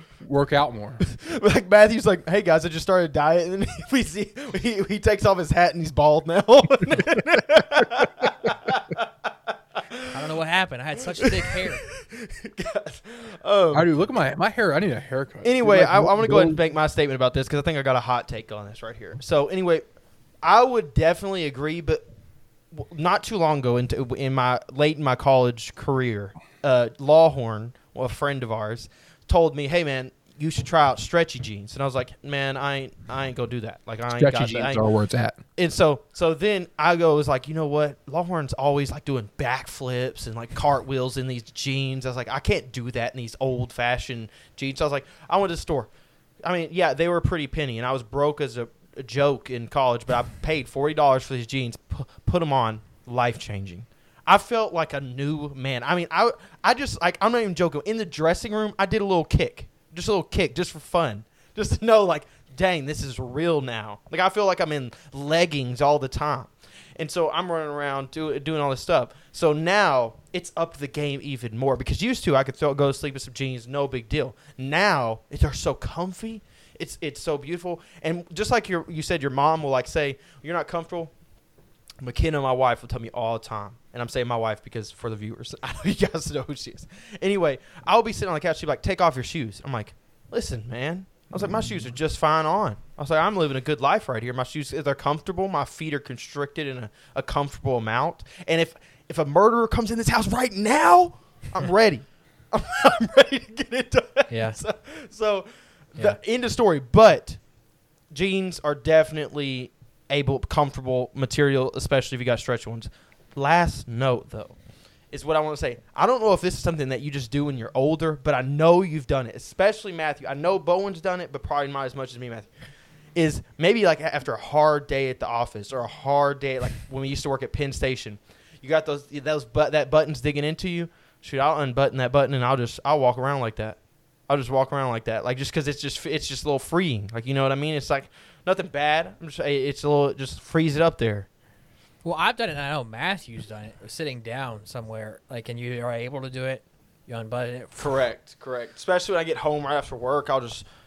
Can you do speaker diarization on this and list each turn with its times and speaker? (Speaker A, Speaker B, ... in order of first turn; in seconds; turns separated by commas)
Speaker A: 0.2-1.0, Speaker B: 1.0-10.2, Speaker C: 10.1-11.8, Speaker B: 11.0-13.9, Speaker A: 13.7-16.6, Speaker B: 15.4-19.8, Speaker B: 20.4-22.1, Speaker B: 22.7-34.9, Speaker A: 34.1-35.4, Speaker B: 35.5-45.9, Speaker B: 46.4-81.1, Speaker B: 82.0-107.4, Speaker C: 104.3-104.6, Speaker B: 108.1-114.5, Speaker B: 115.1-122.5, Speaker B: 123.1-141.3, Speaker C: 142.0-147.9, Speaker B: 147.8-150.6